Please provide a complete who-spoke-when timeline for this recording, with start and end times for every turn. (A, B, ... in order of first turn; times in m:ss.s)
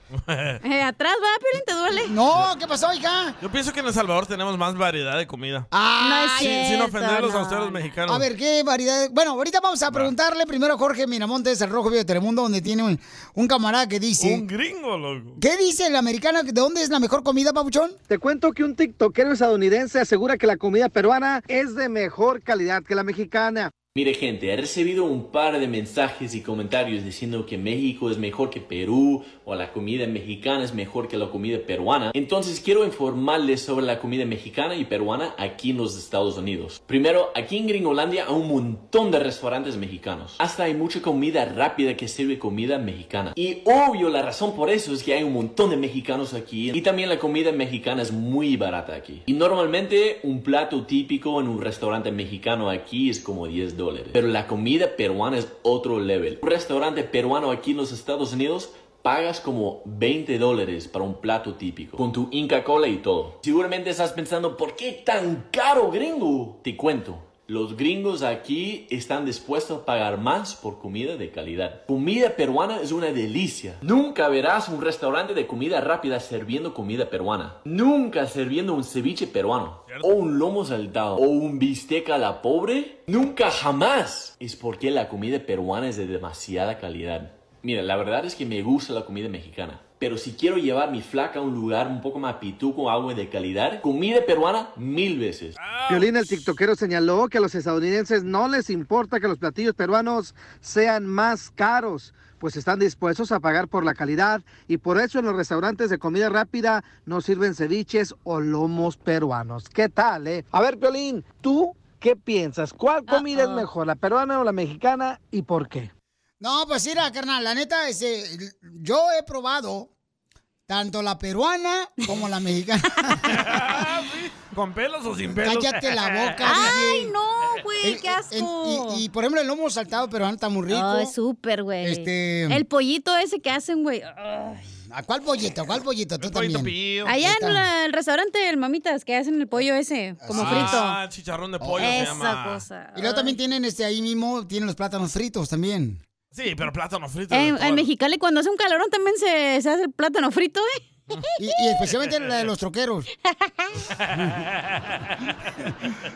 0:00.1-0:00.6 A
0:00.6-0:02.1 B
0:01.9-0:03.4 C
0:03.4-0:05.7 A
0:05.7-0:06.6 C
0:06.0-0:07.9 B
0:06.4-0:08.3 A
0:08.1-0:14.4 C
0:14.2-0:15.4 A
0:15.4-0:18.0 C
0:18.1-0:23.7 D
0:24.0-1:35.6 E
1:19.9-1:20.2 A
1:35.6-1:36.6 A
1:35.9-1:55.9 D
1:53.1-1:53.6 B
1:56.4-1:59.9 C
2:00.7-2:03.7 C
2:03.3-2:06.7 A
2:05.3-2:07.1 C
2:06.4-2:09.0 B
2:07.8-2:11.1 C
2:10.7-2:14.6 B
2:11.8-2:12.6 C
2:14.9-2:17.6 C
2:16.2-2:17.1 A
2:17.1-2:21.0 B
2:20.2-2:20.8 C
2:20.3-2:22.6 A
2:21.6-2:22.1 C
2:21.8-2:23.4 B
2:23.0-2:26.0 C
2:26.3-2:27.9 A
2:27.3-2:30.8 B
2:31.4-2:33.1 C
2:34.0-2:34.5 A